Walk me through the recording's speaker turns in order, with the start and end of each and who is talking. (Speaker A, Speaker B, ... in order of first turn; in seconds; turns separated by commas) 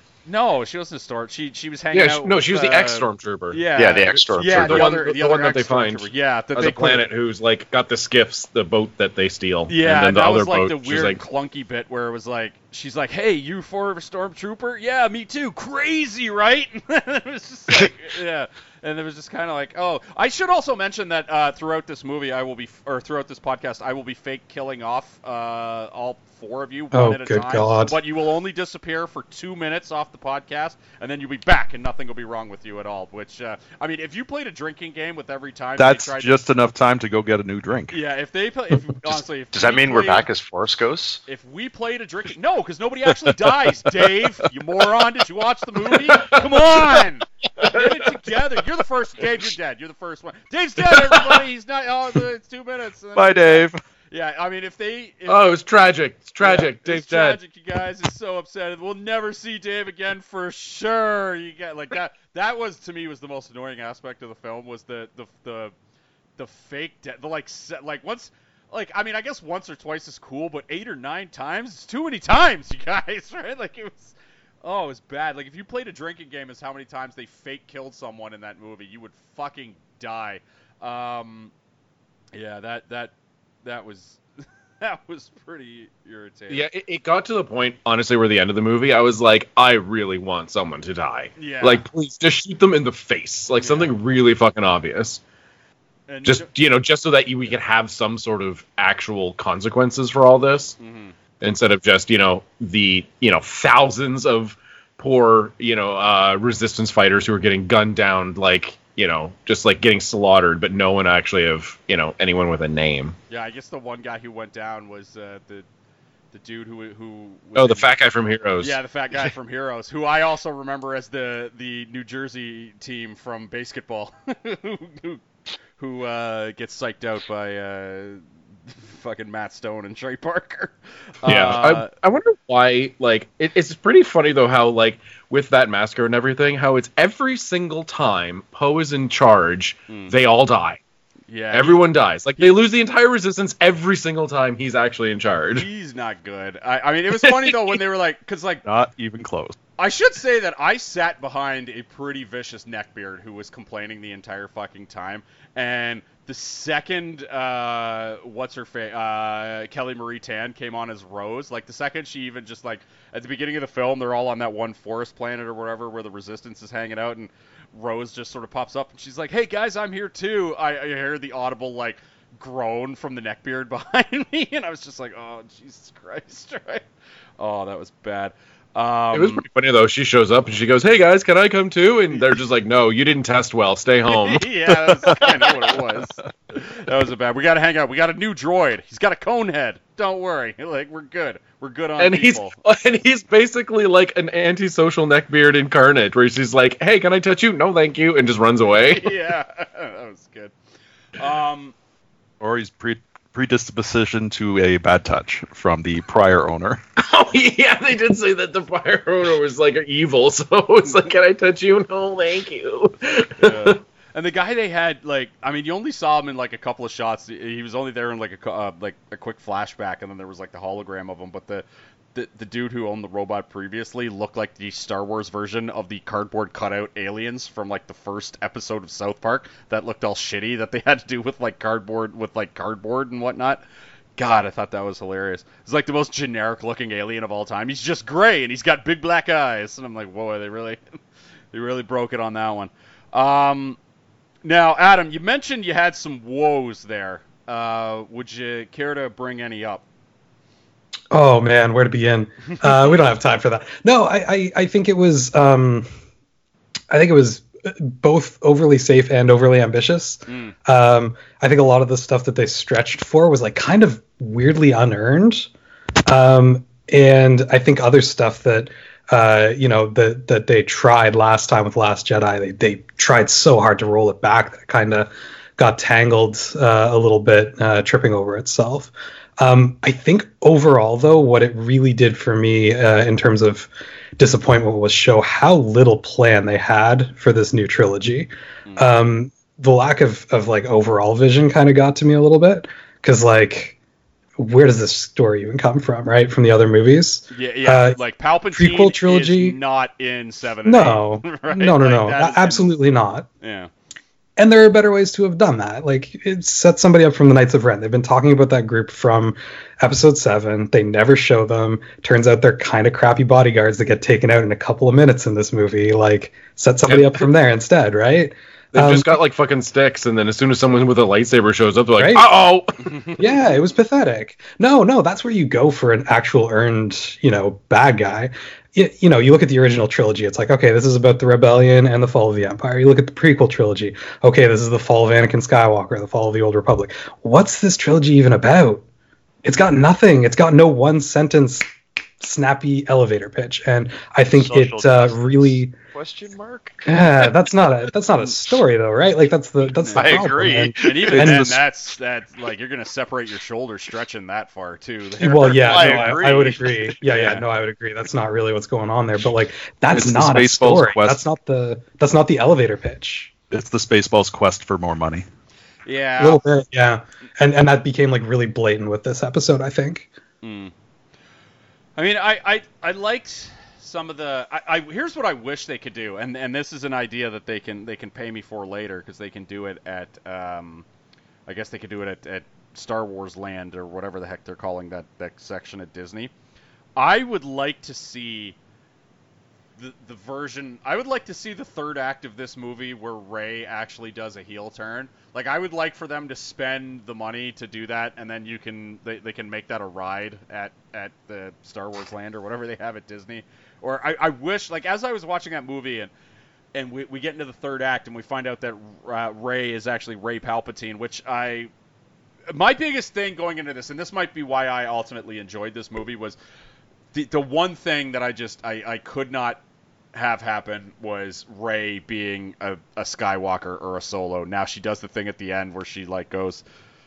Speaker A: 0.3-7.0, Speaker B: 1.9-11.2, Speaker C: 3.8-5.0, Speaker A: 9.7-36.4, Speaker D: 26.9-28.0, Speaker E: 35.8-38.0, Speaker A: 37.9-40.3, Speaker C: 39.5-41.2, Speaker A: 41.3-55.4, Speaker B: 45.9-47.0, Speaker B: 47.6-48.0, Speaker B: 50.9-51.4, Speaker E: 53.2-53.8, Speaker B: 55.3-57.4, Speaker A: 56.4-65.7, Speaker A: 66.4-81.5, Speaker A: 82.3-83.1, Speaker A: 83.6-84.2, Speaker A: 84.8-86.7, Speaker B: 86.5-95.2, Speaker A: 91.4-91.8, Speaker A: 93.6-94.0, Speaker A: 96.1-96.5, Speaker B: 96.2-100.8, Speaker A: 100.8-101.1, Speaker B: 101.4-113.2, Speaker A: 113.3-115.7, Speaker A: 116.3-117.9, Speaker B: 117.6-118.8, Speaker A: 118.6-125.2, Speaker A: 125.8-128.2, Speaker A: 128.9-131.9, Speaker B: 131.3-140.8, Speaker A: 141.3-142.6, Speaker B: 141.5-145.7, Speaker A: 145.6-148.6, Speaker E: 148.7-149.6, Speaker A: 149.8-176.9, Speaker A: 177.4-179.4, Speaker B: 179.1-184.4, Speaker A: 184.1-192.5, Speaker E: 184.9-185.2, Speaker B: 192.0-199.2, Speaker A: 198.8-200.5, Speaker A: 201.2-201.7, Speaker E: 202.4-206.8, Speaker B: 207.0-213.8, Speaker A: 213.4-233.6, Speaker A: 234.2-240.8, Speaker A: 241.5-243.8, Speaker A: 244.4-249.8, Speaker D: 251.1-255.9, Speaker A: 252.5-253.0, Speaker D: 256.9-265.5, Speaker A: 260.3-260.5, Speaker D: 266.1-293.8, Speaker A: 288.7-288.9, Speaker D: 294.4-298.0, Speaker A: 297.3-302.8, Speaker D: 298.5-299.6, Speaker D: 300.6-303.3, Speaker A: 303.4-303.7, Speaker D: 304.4-319.2, Speaker B: 316.9-317.3, Speaker B: 318.7-323.4, Speaker D: 322.0-322.3, Speaker D: 323.2-338.8, Speaker D: 339.4-341.6, Speaker D: 342.2-345.8, Speaker C: 344.3-347.2, Speaker D: 346.9-351.5, Speaker A: 349.9-357.4, Speaker C: 349.9-351.2, Speaker E: 351.2-351.6, Speaker D: 355.2-363.3, Speaker C: 355.2-356.6, Speaker E: 359.9-361.2, Speaker E: 363.5-365.3, Speaker A: 365.9-366.4, Speaker D: 366.2-370.1, Speaker A: 370.4-370.7, Speaker A: 372.0-380.9, Speaker A: 381.5-386.3, Speaker A: 387.0-388.6, Speaker A: 389.8-406.1, Speaker A: 406.8-411.7, Speaker A: 412.5-416.4, Speaker A: 417.1-419.6, Speaker A: 420.1-426.6